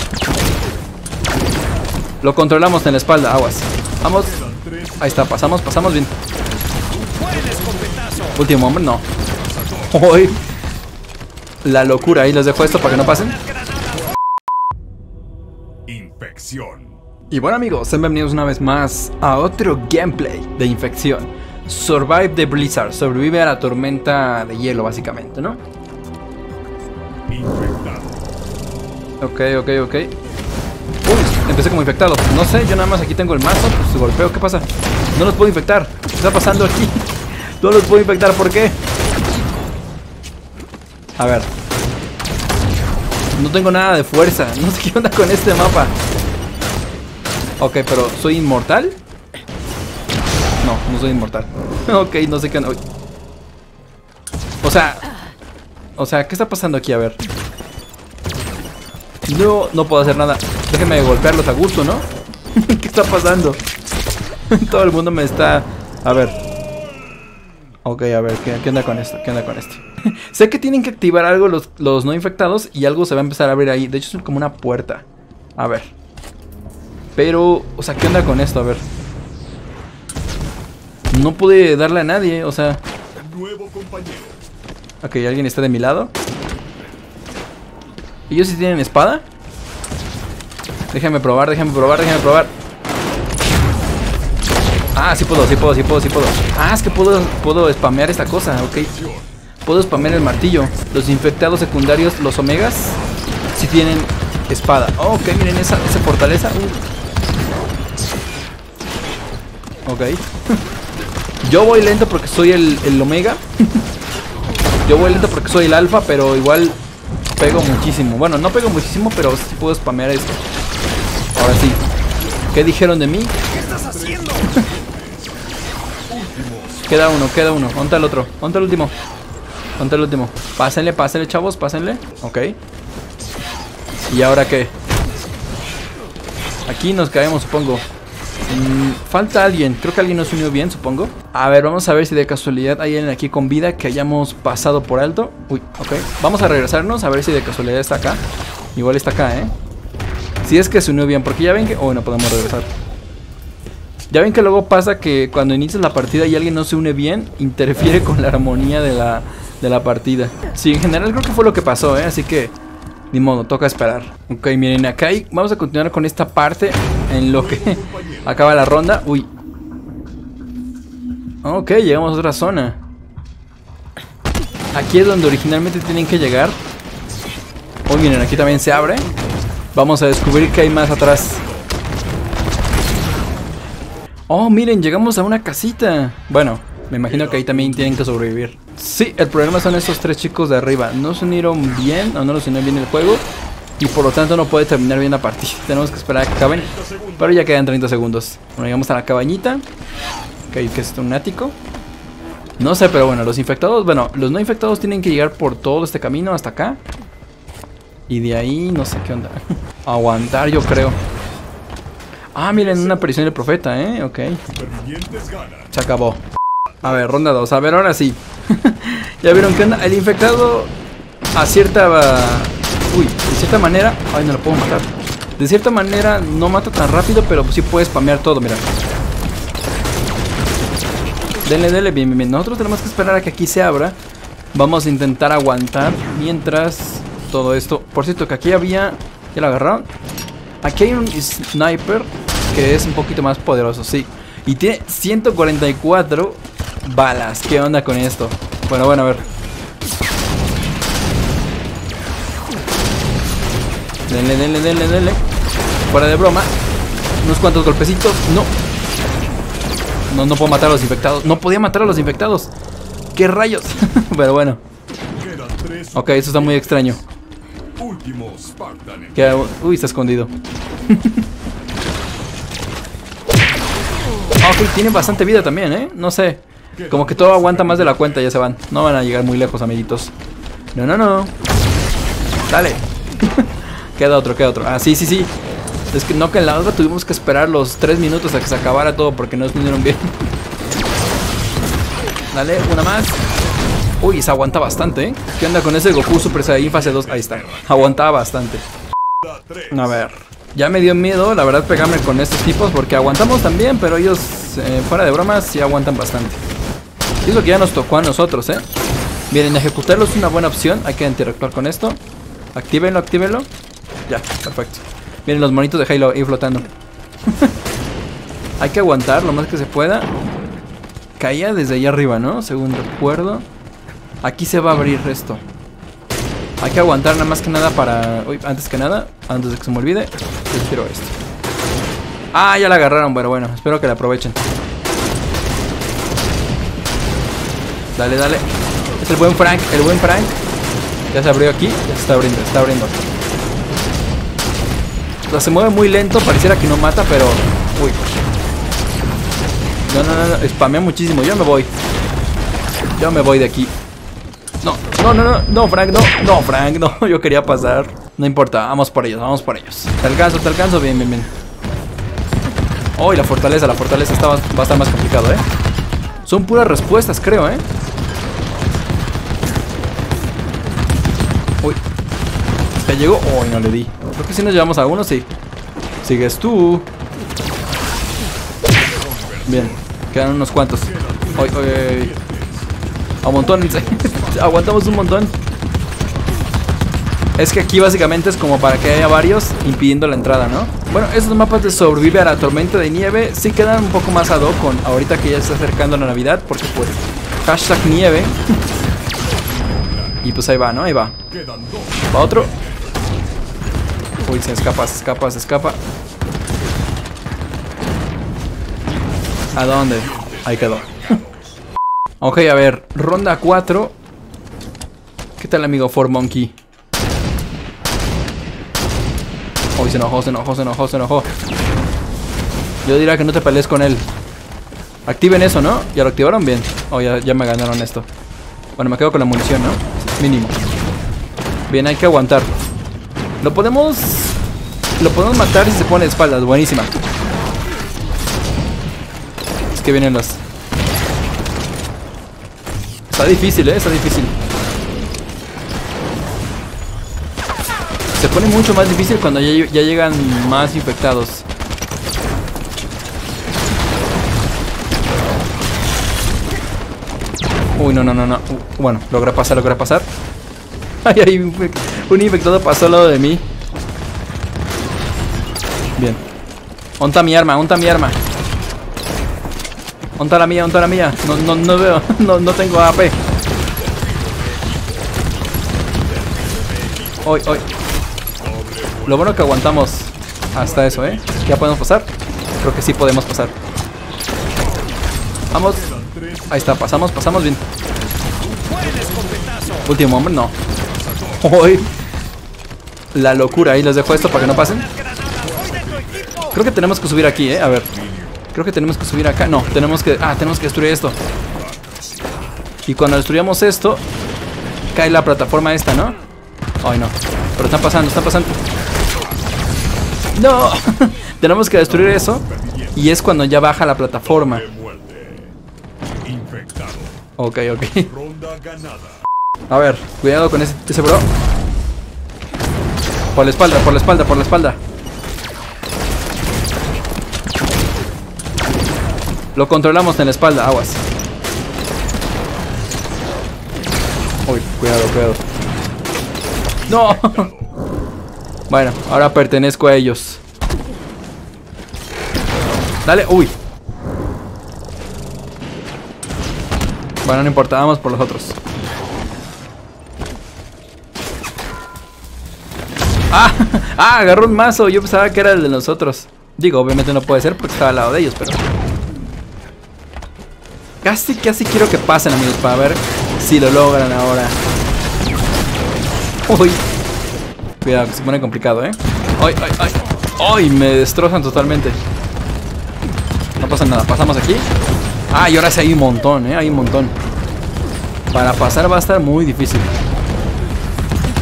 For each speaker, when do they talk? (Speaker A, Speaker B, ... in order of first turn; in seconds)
Speaker A: 2.2-4.4, 5.0-6.1, 8.3-9.1, 9.9-10.4, 11.6-13.4, 17.3-25.6, 29.2-30.1, 31.0-38.8, 41.2-41.5, 43.3-45.9, 47.6-49.0, 50.6-52.8, 54.6-55.0, 56.0-57.2, 59.3-63.6, 64.5-66.4, 67.8-75.0, 75.6-75.9, 77.2-78.8, 81.1-82.8, 85.0-86.1, 88.3-89.2, 90.9-92.5, 94.9-98.9, 99.6-103.0, 103.5-106.8, 109.8-110.2, 111.4-113.8, 114.8-116.8, 117.4-120.4, 121.3-121.8, 122.5-124.6, 126.9-128.9, 129.8-132.6, 134.1-134.7, 136.7-137.8, 138.5-148.2, 148.7-149.5, 150.4-152.7, 154.1-162.5, 163.1-169.3, 171.4-172.8, 174.7-176.6, 177.9-179.1, 179.7-181.4, 184.3-193.2, 193.8-199.6, 200.5-201.6, 202.6-206.8, 208.1-211.0, 212.3-214.4, 215.7-216.2, 216.8-220.7, 221.3-228.6, 231.4-234.0, 234.5-239.9, 240.6-249.2, 254.1-255.2, 255.9-256.5, 257.2-258.5, 260.1-262.5, 263.1-264.6, 265.9-267.0, 269.1-270.3, 270.9-271.2, 274.4-280.1, 280.7-281.3, 282.5-285.3, 285.9-290.1, 292.3-293.2, 294.0-298.6, 299.7-306.4, 307.2-308.6, 309.3-312.0, 312.5-313.5, 314.1-316.7, 317.3-317.5, 318.6-320.1, 321.2-323.5, 324.2-325.4, 326.6-331.1, 332.3-334.4, 337.9-338.5, 339.0-340.3, 341.1-343.0, 345.3-348.0, 349.9-351.7, 352.9-353.7, 354.6-361.3, 362.9-365.4, 366.2-367.6, 372.8-375.3, 376.0-376.9, 379.4-382.1, 383.2-385.3, 387.4-398.4, 400.2-401.2, 402.1-402.6, 404.2-405.8, 409.5-411.0, 412.2-413.9, 415.4-416.5, 419.8-421.3, 422.8-424.1, 425.1-428.1, 428.8-430.6, 431.7-432.6, 433.4-434.4, 435.0-436.9, 439.7-440.4, 443.1-444.3, 448.1-451.4, 457.8-460.1, 461.0-463.4, 466.0-466.2, 467.0-468.2, 470.2-473.2, 477.2-477.6, 479.1-483.5, 485.5-485.9, 486.5-487.6, 489.8-490.6, 491.3-491.9, 493.1-494.9, 496.5-497.9, 498.5-501.2, 502.9-504.0, 504.9-506.2, 506.8-508.6, 510.3-514.6, 517.4-518.1, 519.7-521.3, 523.3-524.8, 529.5-531.0, 534.5-535.4, 536.9-537.5, 538.7-540.4, 543.0-543.5, 547.2-548.6, 553.3-558.6, 561.0-564.5, 566.5-566.8, 567.8-572.0, 573.6-574.7, 575.3-577.1, 578.3-579.9
Speaker B: 4.2-5.6, 6.9-8.3, 9.6-10.0, 13.7-14.0, 15.9-17.0, 27.3-28.2, 83.2-84.4, 98.9-99.3, 123.6-125.5, 126.1-126.9, 167.4-168.3, 178.5-179.1, 180.7-181.6, 187.1-188.1, 196.5-197.5, 212.5-213.4, 214.5-215.7, 265.1-266.9, 267.8-269.5, 276.8-278.1, 296.4-297.8, 299.2-299.8, 378.7-379.8, 380.9-382.7, 383.8-384.8, 391.9-392.3, 399.3-400.2, 401.3-402.9, 409.9-411.6, 473.6-475.3, 475.8-477.4, 478.4-479.3, 480.6-481.4, 485.7-486.9, 488.4-489.9, 491.0-491.5, 493.6-494.1, 495.0-496.5, 497.8-498.5, 501.6-502.4, 512.5-513.0, 514.3-515.5, 516.2-517.2, 518.1-519.2, 536.8-537.7